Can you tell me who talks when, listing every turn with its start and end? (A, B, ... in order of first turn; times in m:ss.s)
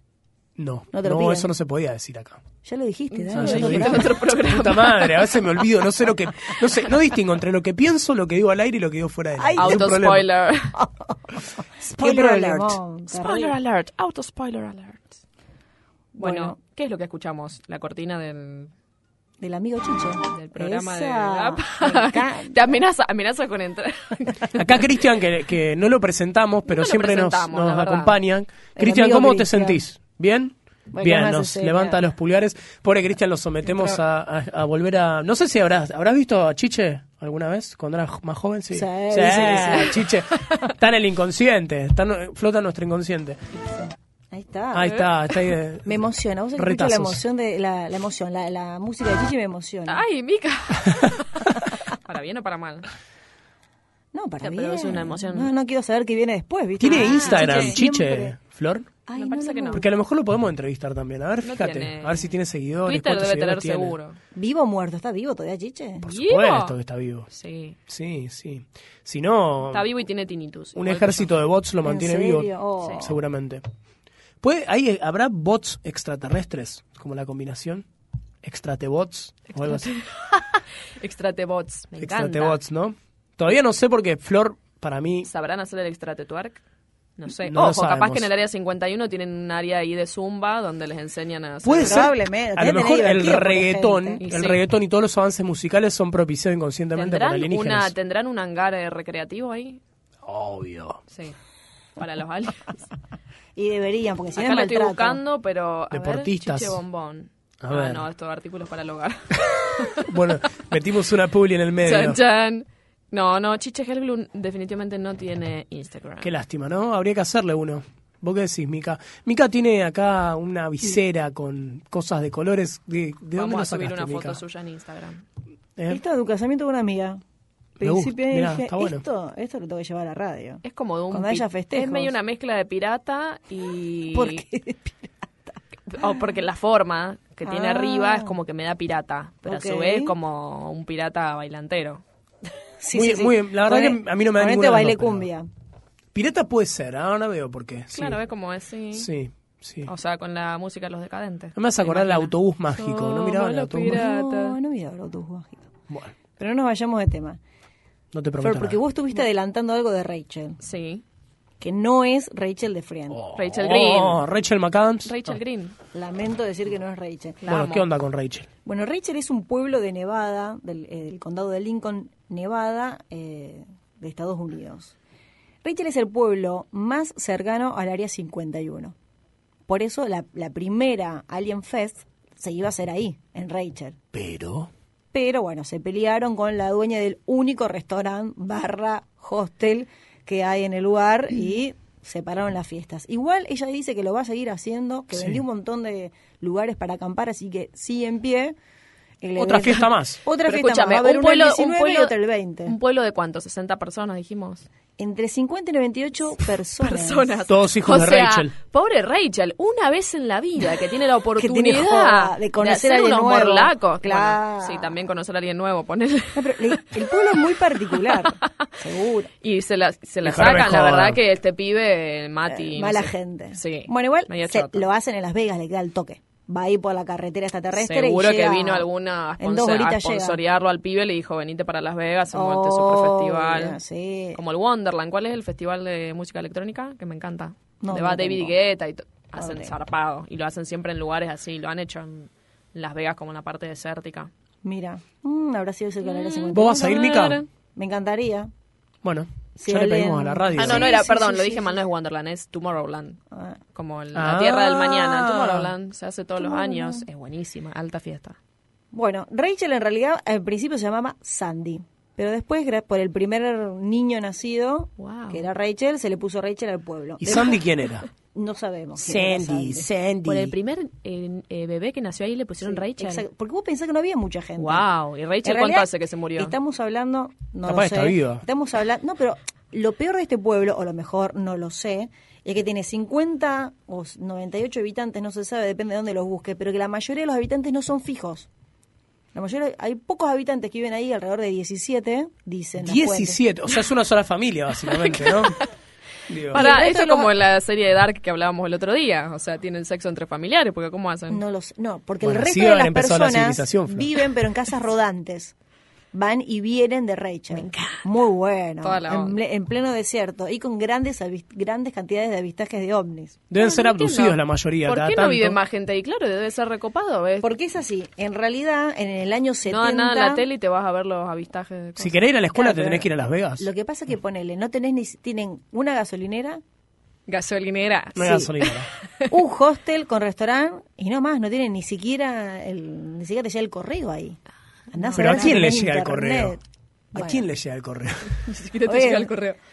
0:00.6-0:02.4 A
0:00.9-0:01.5 B
0:02.6-0:04.1 B
0:03.1-0:05.2 C
0:03.3-0:10.3 A
0:09.4-0:09.9 B
0:09.6-0:10.8 C
0:10.8-0:11.2 B
0:11.8-0:13.6 B
0:12.0-0:12.8 A
0:13.1-0:15.2 C
0:16.2-0:16.6 B
0:16.2-0:18.7 C
0:19.4-0:22.8 B
0:20.3-0:24.8 C
0:24.6-0:43.4 A
0:26.7-0:28.2 C
0:28.8-0:29.8 B
0:30.9-0:32.0 B
0:38.7-0:40.0 B
0:44.3-0:45.1 B
0:44.7-0:47.2 A
0:45.9-0:50.0 B
0:49.9-0:52.9 C
0:54.1-0:58.4 B
0:54.4-0:55.5 C
0:56.8-0:58.9 A
0:56.9-0:57.8 C
0:59.1-0:59.9 B
0:59.2-0:59.8 C
0:59.7-1:04.0 A
1:01.4-1:04.2 C
1:04.3-1:06.0 B
1:06.0-1:07.3 A
1:06.0-1:06.8 C
1:07.3-1:07.8 C
1:07.9-1:09.9 A
1:09.6-1:11.4 C
1:10.8-1:13.6 A
1:11.8-1:13.2 B
1:14.4-1:17.8 A
1:18.4-1:19.9 A
1:19.5-1:22.6 C
1:22.0-1:25.3 A
1:25.2-1:26.6 C
1:27.2-1:32.1 C
1:27.4-1:28.3 A
1:31.6-1:37.9 A
1:31.8-1:34.2 B
1:34.2-1:34.6 C
1:36.9-1:39.8 C
1:40.2-1:41.0 A
1:41.1-1:41.4 C
1:42.0-1:42.8 C
1:43.6-1:45.2 B
1:44.4-1:50.0 C
1:45.9-1:46.8 A
1:47.6-1:48.0 A
1:50.0-1:52.2 A
1:51.8-1:56.3 C
1:56.2-2:04.4 A
2:03.4-2:05.2 C
2:05.9-2:07.2 B
2:07.8-2:12.1 B
2:07.8-2:09.0 A
2:10.6-2:14.4 C
2:14.1-2:16.1 B
2:15.9-2:22.0 C
2:17.4-2:18.4 B
2:19.4-2:20.1 B
2:22.8-2:25.5 B
2:22.9-2:25.3 A
2:26.1-2:28.2 A
2:27.9-2:29.1 C
2:28.9-2:29.9 A
2:29.8-2:34.6 C
2:31.6-2:34.0 A
2:33.8-2:35.7 B
2:35.9-2:36.1 A
2:36.4-2:37.4 B
2:38.1-2:38.8 A
2:38.4-2:40.6 B
2:40.6-2:41.0 C
2:41.6-2:43.2 B
2:43.1-2:45.4 A
2:43.3-2:44.2 C
2:45.0-2:45.7 C
2:45.9-2:47.4 B
2:47.4-2:47.9 C
2:47.5-2:48.5 A
2:48.6-2:54.9 B
2:55.6-2:58.9 B
2:59.7-3:04.0 B
3:04.1-3:04.7 A
3:05.1-3:18.6 B
3:15.1-3:15.4 A
3:19.2-3:22.7 B
3:19.4-3:20.2 A
3:20.4-3:22.1 C
3:22.6-3:24.7 C
3:25.0-3:27.3 B
3:26.8-3:36.9 C
3:27.5-3:28.5 A
3:31.4-3:34.9 B
3:36.4-3:39.3 B
3:37.9-3:38.7 C
3:39.4-3:44.9 C
3:40.2-3:41.2 A
3:42.5-3:48.9 B
3:47.7-3:53.8 C
3:49.4-3:50.4 B
3:52.3-3:54.4 B
3:54.4-4:04.3 C
3:57.8-3:58.6 B
3:59.4-3:59.7 B
4:04.6-4:08.5 B
4:06.0-4:07.4 C
4:06.5-4:07.4 A
4:09.0-4:10.9 A
4:09.6-4:11.7 B
4:10.6-4:13.2 C
4:13.3-4:13.6 B
4:13.7-4:18.4 C
4:14.1-4:15.7 A
4:16.4-4:17.0 B
4:18.9-4:27.6 B
4:25.0-4:25.4 C
4:27.2-4:28.1 A
4:28.3-4:29.9 B
4:29.0-4:30.6 A
4:30.3-4:33.2 C
4:32.6-4:34.9 B
4:34.6-4:36.6 C
4:35.4-4:48.5 B
4:37.7-4:38.4 A
4:49.3-4:53.4 B
4:52.8-4:55.6 A
4:55.0-4:55.6 C
4:56.3-4:56.6 A
4:56.5-4:57.3 B
4:56.5-5:01.4 C
5:01.3-5:05.5 B
5:02.2-5:04.1 A
5:06.1-5:13.4 B
5:07.5-5:08.0 C
5:08.8-5:09.4 C
5:13.5-5:15.6 A
5:13.6-5:17.5 C
5:17.4-5:20.4 B
5:19.7-5:22.2 C
5:22.0-5:23.7 A
5:22.6-5:23.1 B
5:23.6-5:26.6 B
5:27.3-5:29.3 C
5:28.2-5:28.9 A
5:28.2-5:28.5 B
5:29.3-5:34.4 B
5:34.9-5:36.6 B
5:35.0-5:35.5 C
5:35.1-5:36.6 A
5:37.1-5:37.4 B
5:37.1-5:38.4 A
5:38.4-5:39.6 C
5:38.9-5:39.3 B